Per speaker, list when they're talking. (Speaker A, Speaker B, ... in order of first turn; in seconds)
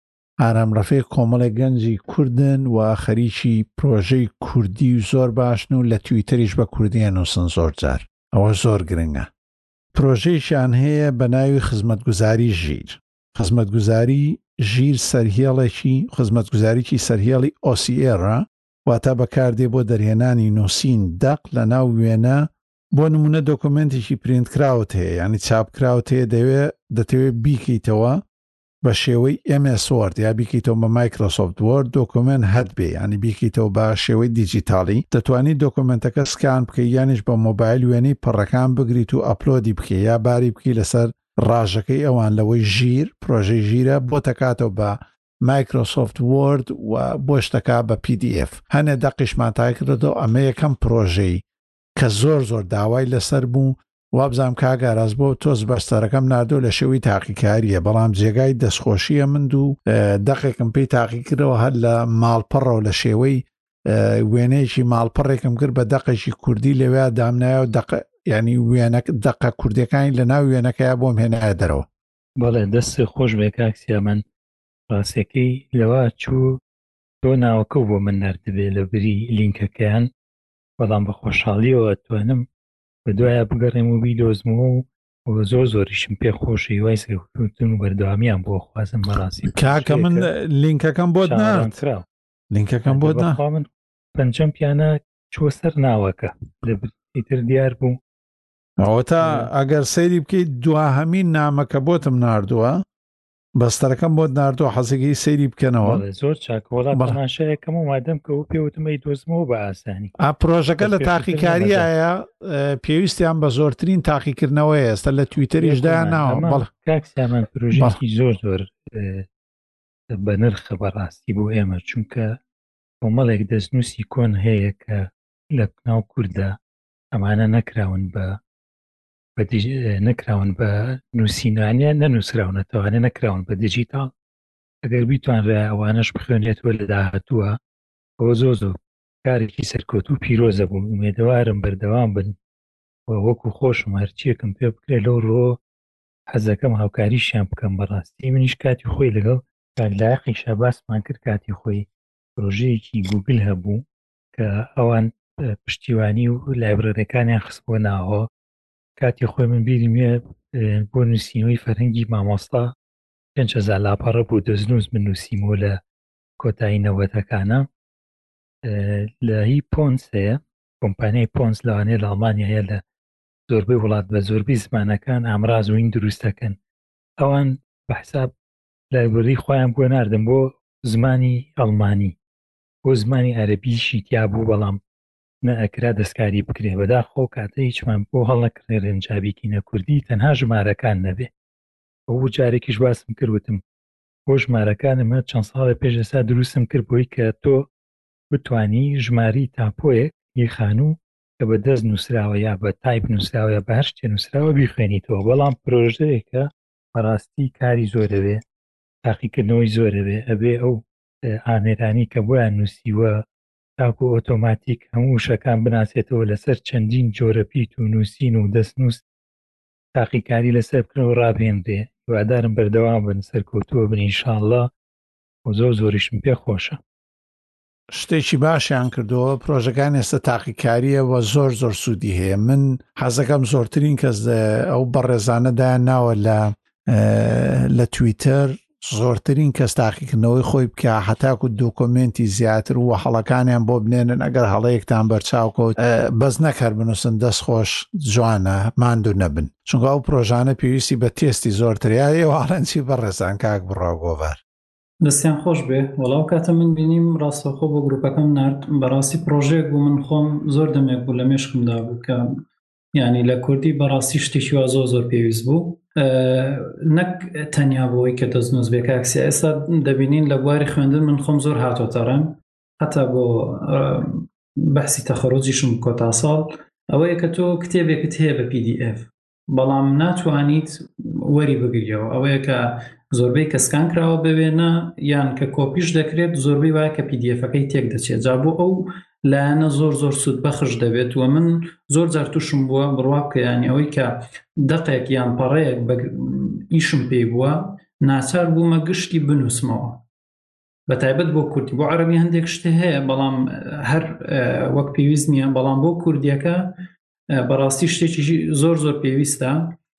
Speaker A: 0.4-9.3, 9.9-28.2, 28.8-51.4, 52.0-71.9, 89.5-91.8, 92.5-93.4, 98.8-102.8, 103.5-106.0, 106.9-107.2, 110.2-116.7, 227.9-254.4
Speaker B: 72.4-74.2, 74.9-76.6, 77.2-80.1, 80.8-82.5, 83.1-90.3, 91.2-92.1, 92.9-98.0, 99.2-99.5, 105.8-110.1, 110.8-111.9, 115.6-119.3, 120.1-122.4, 123.0-126.6, 127.1-128.4, 129.4-134.1, 134.8-137.6, 138.2-142.4, 143.1-145.6, 146.3-158.3, 159.0-162.7, 163.4-165.8, 166.4-167.7, 168.7-172.8, 173.5-176.6, 177.2-178.3, 178.9-182.2, 182.9-184.8, 185.4-191.3, 192.1-193.6, 194.3-197.7, 198.3-208.4, 209.0-213.1, 213.8-219.0, 219.9-224.7, 225.5-226.8
Speaker C: 255.0-262.2, 262.9-300.0, 300.9-306.7, 307.3-309.8